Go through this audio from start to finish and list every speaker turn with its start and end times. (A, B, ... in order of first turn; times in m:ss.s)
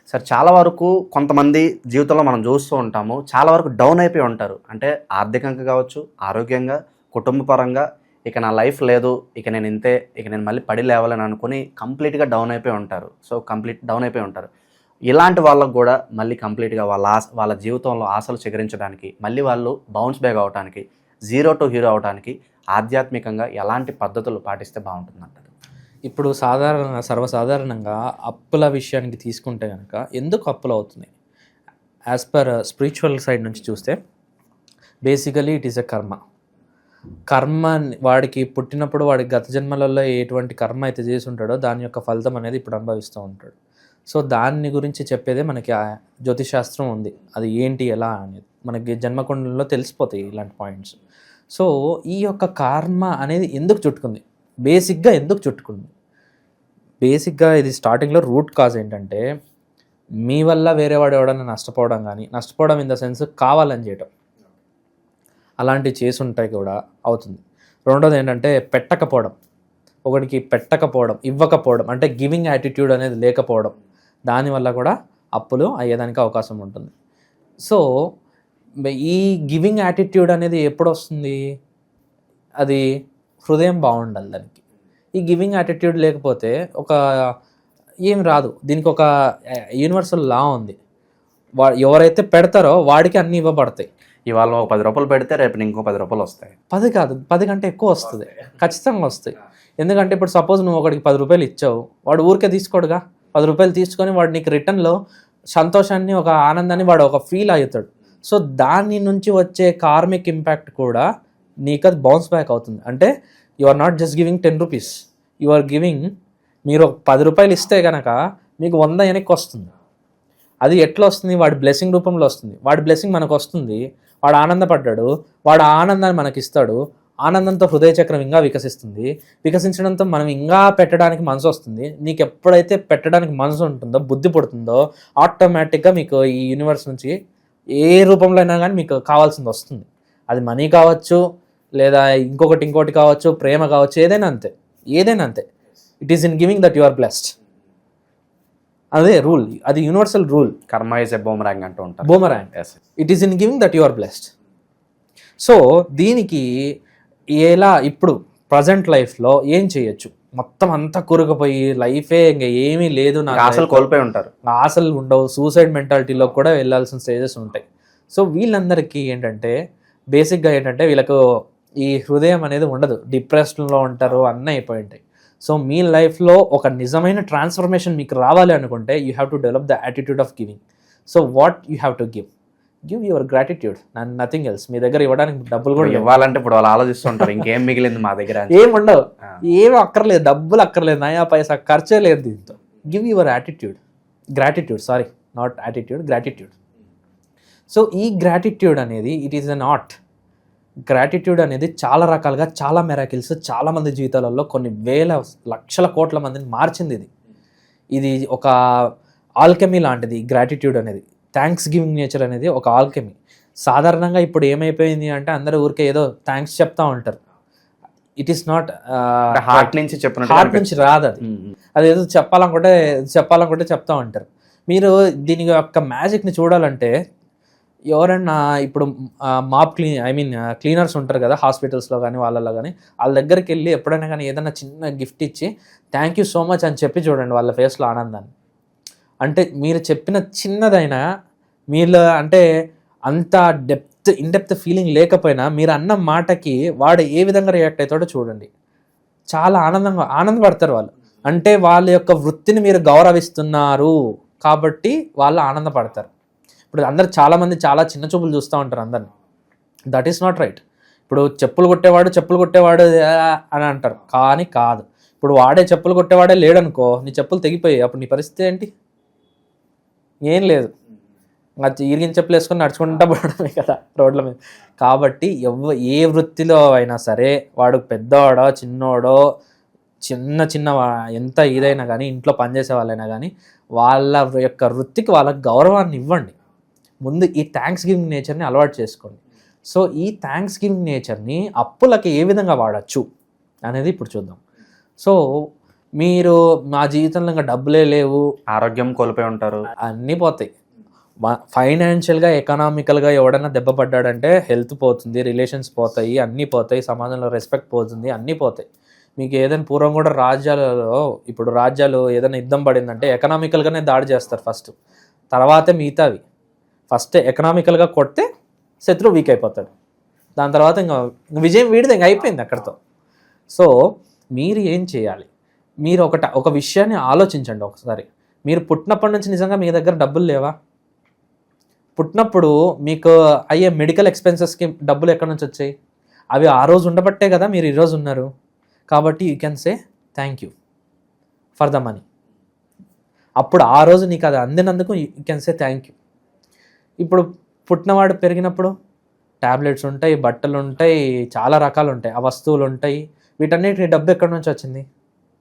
0:00.1-0:14.5 A
0:15.1-0:25.5 A
0:26.1-0:31.1 B
0:32.1-0:34.0 B
0:35.0-0:36.2 B
0:37.3-0:43.5 B
0:44.1-0:45.7 B
0:46.2-0:51.0 B
0:51.5-0:55.9 B
0:57.0-0:59.2 B
1:00.2-1:04.1 B
1:05.6-1:09.3 B
1:10.1-1:13.7 B
1:14.3-1:16.9 B
1:18.9-1:21.4 B
1:23.4-1:24.6 B
1:25.2-1:27.0 B
1:28.1-1:29.0 B
1:29.8-1:30.8 B
1:31.6-1:33.9 B
1:34.3-1:36.5 A
1:36.7-1:44.9 B
1:45.5-1:51.0 B
1:51.7-1:53.1 B
1:53.6-1:56.0 B
1:56.7-1:59.7 B
2:00.6-2:17.1 B
2:17.8-2:21.2 B
2:21.8-2:25.4 B
2:26.0-2:27.3 B
2:28.9-2:30.5 B
2:30.7-2:32.7 A
2:32.0-2:34.3 B
2:35.4-2:36.4 B
2:37.4-2:43.9 B
2:43.3-2:44.3 A
2:44.5-2:49.5 B
2:50.1-2:51.2 B
2:51.8-3:02.3 B
3:02.9-3:06.0 B
3:05.8-3:08.7 A
3:08.5-3:13.8 B
3:14.4-3:16.5 B
3:17.7-3:19.9 B
3:20.9-3:27.1 B
3:27.9-3:28.5 B
3:29.4-3:37.2 B
3:38.2-3:41.2 B
3:39.3-3:41.5 A
3:41.8-3:46.9 B
3:47.9-3:48.9 B
3:49.5-3:58.3 B
3:59.2-4:01.0 B
4:01.7-4:02.4 B
4:03.1-4:08.5 B
4:09.3-4:16.1 B
4:16.7-4:19.1 B
4:19.9-4:28.7 B
4:30.3-4:30.7 B
4:31.6-4:39.2 B
4:40.0-4:46.3 B
4:47.0-4:53.0 B
4:53.6-4:54.4 B
4:56.0-4:58.2 B
4:58.5-4:59.7 A
4:59.8-5:00.5 B
5:01.2-5:08.6 B
5:09.2-5:14.7 B
5:15.3-5:16.2 B
5:16.9-5:18.2 B
5:18.8-5:19.7 B
5:20.4-5:22.8 B
5:24.4-5:25.3 B
5:25.8-5:30.5 B
5:32.0-5:35.7 B
5:36.3-5:38.3 B
5:38.9-5:40.5 B
5:41.6-5:42.0 B
5:43.4-5:45.9 B
5:47.0-5:48.7 B
5:49.4-5:54.8 B